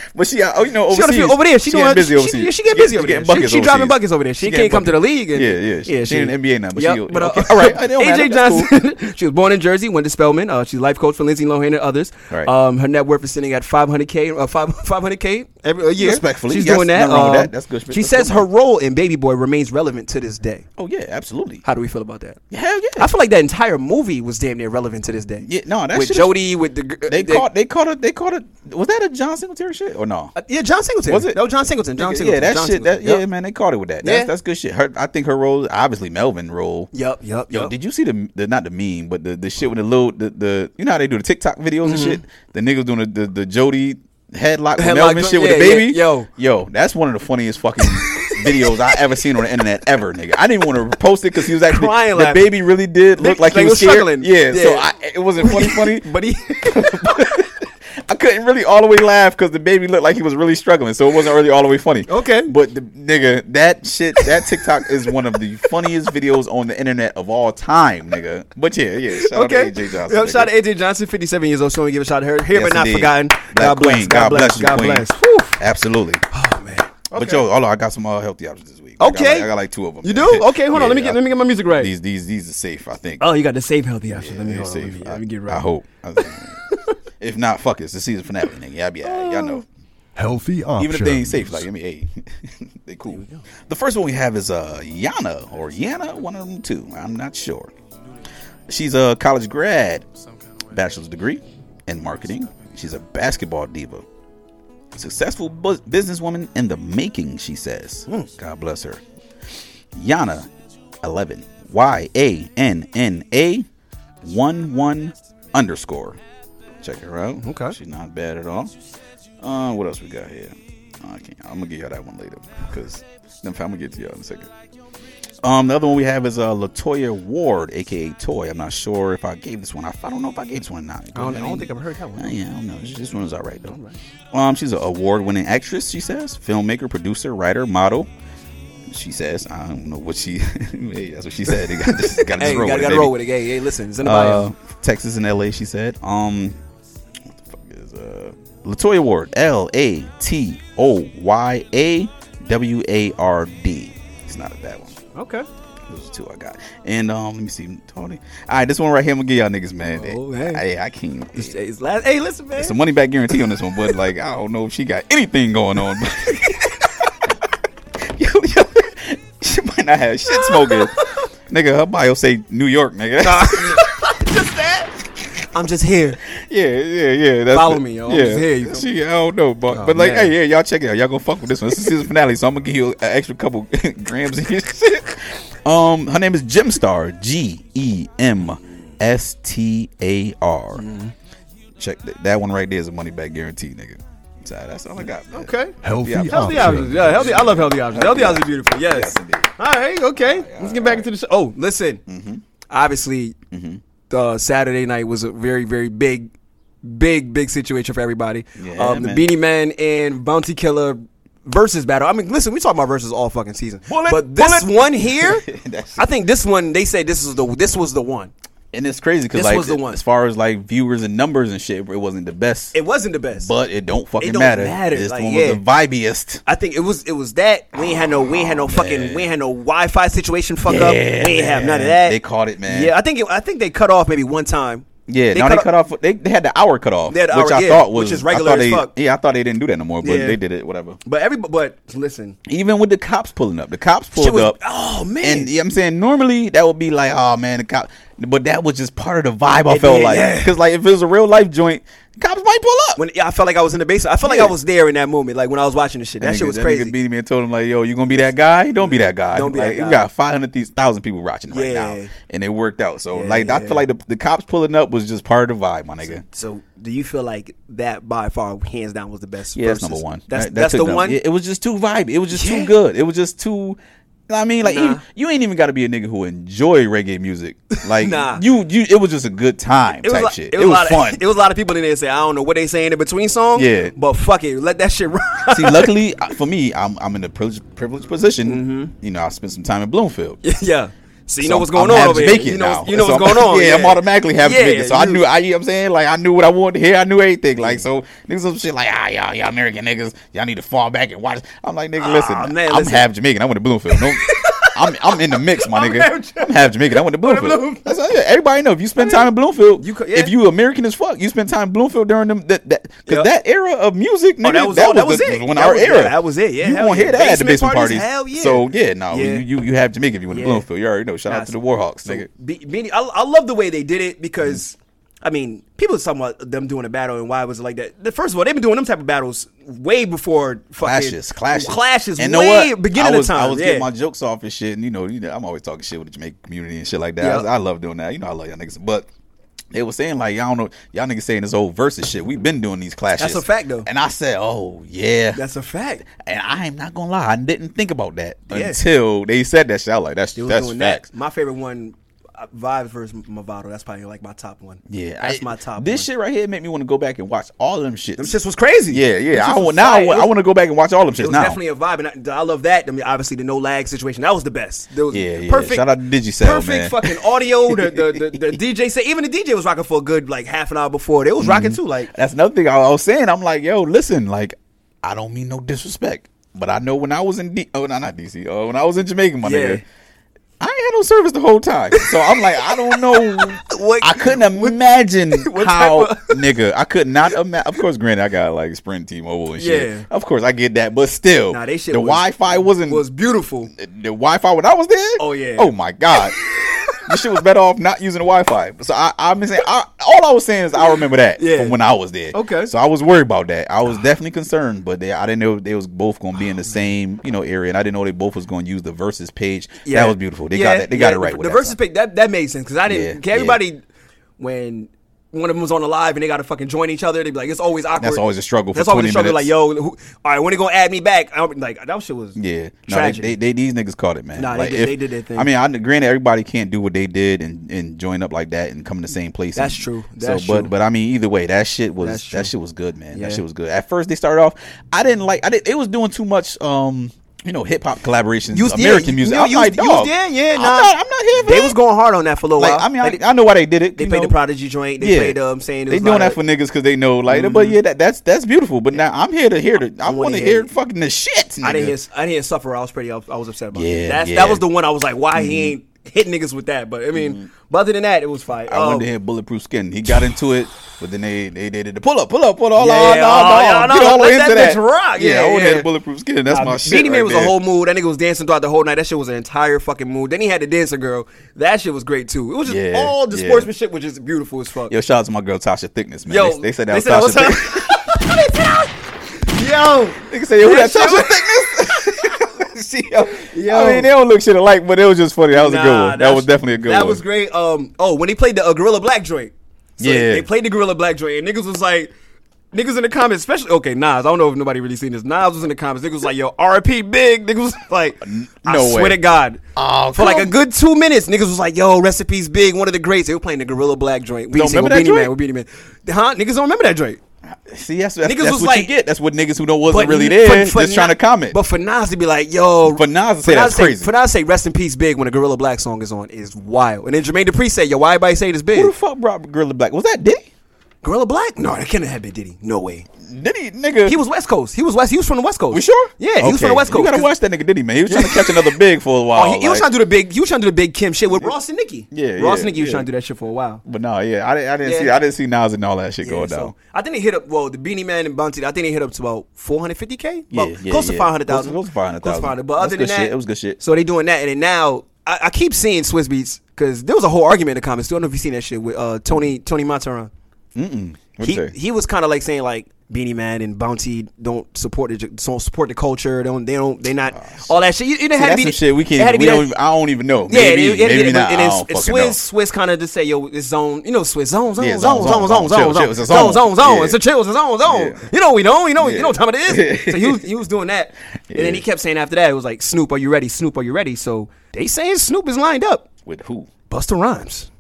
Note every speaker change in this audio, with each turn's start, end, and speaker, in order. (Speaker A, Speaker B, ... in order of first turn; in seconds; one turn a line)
Speaker A: 0.1-8.7
Speaker B: 0.9-20.7
Speaker A: 16.0-18.5
Speaker A: 20.8-21.6
Speaker B: 21.6-22.4
Speaker A: 22.5-23.1
Speaker B: 23.0-27.5
Speaker A: 25.4-26.3
Speaker A: 27.1-30.4
Speaker B: 30.4-33.2
Speaker A: 31.1-31.4
Speaker A: 31.9-36.9
Speaker B: 34.0-34.3
Speaker B: 36.9-37.7
Speaker A: 37.5-56.1
Speaker B: 41.8-42.2
Speaker B: 44.8-46.3
Speaker B: 48.0-48.8
Speaker B: 51.6-52.5
Speaker B: 53.2-54.9
Speaker B: 55.4-56.9
Speaker A: 56.7-70.5
Speaker B: 62.1-62.5
Speaker B: 64.2-64.9
Speaker B: 69.1-75.6
Speaker A: 72.5-76.2
Speaker B: 76.3-77.5
Speaker A: 77.1-83.4
Speaker B: 79.0-79.5
Speaker B: 80.0-81.9
Speaker B: 83.2-85.7
Speaker A: 84.1-86.6
Speaker B: 86.2-86.9
Speaker A: 87.2-89.7
Speaker B: 89.0-89.6
Speaker C: 90.2-91.6
Speaker A: 90.8-97.7
Speaker B: 93.1-93.5
Speaker A: 98.7-100.1
Speaker A: 100.7-104.0
Speaker A: 104.9-109.0
Speaker A: 109.9-110.5
Speaker A: 111.0-113.7
Speaker A: 114.2-116.2
Speaker A: 116.8-118.7
Speaker B: 117.4-117.8
Speaker A: 119.4-124.5
Speaker A: 125.4-133.8
Speaker B: 131.2-132.3
Speaker B: 133.7-134.0
Speaker A: 134.3-138.1
Speaker A: 138.9-143.2
Speaker B: 142.0-144.5
Speaker A: 144.0-146.6
Speaker A: 147.5-155.0
Speaker B: 155.2-155.5
Speaker A: 155.9-161.6
Speaker B: 159.9-160.6
Speaker B: 161.3-162.8
Speaker A: 162.6-167.1
Speaker A: 168.0-173.8
Speaker B: 170.3-171.1
Speaker B: 173.2-174.9
Speaker B: 175.5-176.2
Speaker A: 176.3-190.8
Speaker B: 177.5-178.9
Speaker B: 179.7-180.3
Speaker B: 190.8-191.1
Speaker A: 191.8-199.5
Speaker B: 195.3-195.8
Speaker C: 195.8-197.4
Speaker B: 196.3-202.0
Speaker A: 200.2-201.1
Speaker A: 202.1-202.4
Speaker B: 202.7-203.4
Speaker A: 203.5-203.8
Speaker B: 204.1-206.3
Speaker B: 206.8-215.4
Speaker A: 208.6-209.3
Speaker A: 213.9-216.1
Speaker B: 216.0-218.3
Speaker A: 218.7-222.8
Speaker B: 219.3-220.0
Speaker B: 222.7-223.5
Speaker A: 223.3-226.4
Speaker B: 224.2-225.6
Speaker B: 226.5-235.7
Speaker A: 227.8-229.3
Speaker A: 230.7-232.9
Speaker A: 235.1-241.0
Speaker B: 237.1-238.9
Speaker B: 240.0-240.4
Speaker B: 241.1-242.4
Speaker A: 242.5-244.6
Speaker B: 244.2-245.5
Speaker A: 245.2-253.0
Speaker B: 249.7-250.6
Speaker B: 253.0-256.9
Speaker A: 254.2-254.6
Speaker A: 256.2-266.2
Speaker B: 258.8-260.1
Speaker B: 261.5-262.1
Speaker B: 263.1-263.9
Speaker B: 266.1-271.2
Speaker A: 269.5-281.2
Speaker B: 272.3-272.7
Speaker B: 274.6-275.0
Speaker B: 277.8-278.4
Speaker B: 280.0-285.9
Speaker A: 283.6-283.9
Speaker A: 285.5-290.4
Speaker B: 288.5-288.9
Speaker B: 290.4-295.2
Speaker A: 291.4-322.3
Speaker B: 297.6-297.9
Speaker B: 302.0-303.1
Speaker B: 303.9-308.0
Speaker B: 309.0-309.3
Speaker B: 309.8-310.3
Speaker B: 313.1-313.3
Speaker B: 314.4-319.5
Speaker B: 320.3-320.6
Speaker B: 321.3-333.9
Speaker A: 330.8-339.1
Speaker B: 337.2-337.5
Speaker A: 339.7-345.4
Speaker B: 343.2-343.9
Speaker B: 345.3-346.0
Speaker A: 346.0-351.1
Speaker B: 348.5-348.8
Speaker B: 350.4-356.1
Speaker A: 354.9-358.4
Speaker B: 358.2-360.3
Speaker A: 358.9-361.6
Speaker B: 361.2-365.9
Speaker A: 365.1-368.6
Speaker B: 366.4-372.1
Speaker A: 371.4-379.9
Speaker B: 379.4-379.8
Speaker A: 380.6-393.0
Speaker B: 381.9-384.8
Speaker B: 385.3-386.4
Speaker B: 389.6-390.1
Speaker B: 391.5-393.7
Speaker A: 393.8-396.4
Speaker B: 395.2-397.0
Speaker A: 397.1-411.8
Speaker B: 401.4-401.8
Speaker B: 402.3-402.7
Speaker B: 409.9-413.8
Speaker A: 412.9-413.6
Speaker B: 414.4-423.4
Speaker A: 418.0-419.5
Speaker A: 422.4-441.8
Speaker B: 424.4-425.5
Speaker B: 429.6-430.7
Speaker B: 432.0-432.5
Speaker B: 433.1-433.4
Speaker B: 438.5-443.2
Speaker A: 442.6-444.4
Speaker B: 444.0-446.4
Speaker A: 445.0-451.9
Speaker B: 447.3-447.8
Speaker B: 450.0-450.7
Speaker B: 451.6-459.1
Speaker A: 453.7-454.6
Speaker A: 455.3-455.7
Speaker A: 457.1-457.5
Speaker A: 458.7-467.6
Speaker B: 462.8-465.9
Speaker B: 466.5-474.9
Speaker A: 472.7-473.7
Speaker A: 474.9-478.0
Speaker B: 476.3-482.2
Speaker A: 480.3-487.2
Speaker B: 483.4-484.1
Speaker B: 485.5-492.1
Speaker A: 490.0-490.5
Speaker B: 492.7-499.6
Speaker A: 498.2-499.2
Speaker A: 499.8-500.6
Speaker B: 500.1-507.2
Speaker A: 504.5-505.3
Speaker A: 507.5-511.6
Speaker B: 508.2-508.9
Speaker B: 509.9-518.9
Speaker A: 512.8-514.1
Speaker A: 518.7-520.5
Speaker B: 521.0-523.1
Speaker A: 523.2-524.2
Speaker B: 524.1-527.3
Speaker A: 525.7-529.9
Speaker B: 528.1-528.8
Speaker B: 529.3-533.8
Speaker A: 532.1-533.1
Speaker A: 533.9-536.7
Speaker B: 534.8-535.1
Speaker B: 536.2-550.3
Speaker A: 540.5-543.8
Speaker A: 550.8-551.7
Speaker B: 551.4-559.7
Speaker A: 557.3-557.8
Speaker A: 558.4-562.4
Speaker B: 560.5-576.0
Speaker A: 564.8-567.2
Speaker A: 567.9-568.2
Speaker A: 569.0-570.5
Speaker A: 571.5-571.9
Speaker A: 576.2-576.7
Speaker B: 576.9-577.7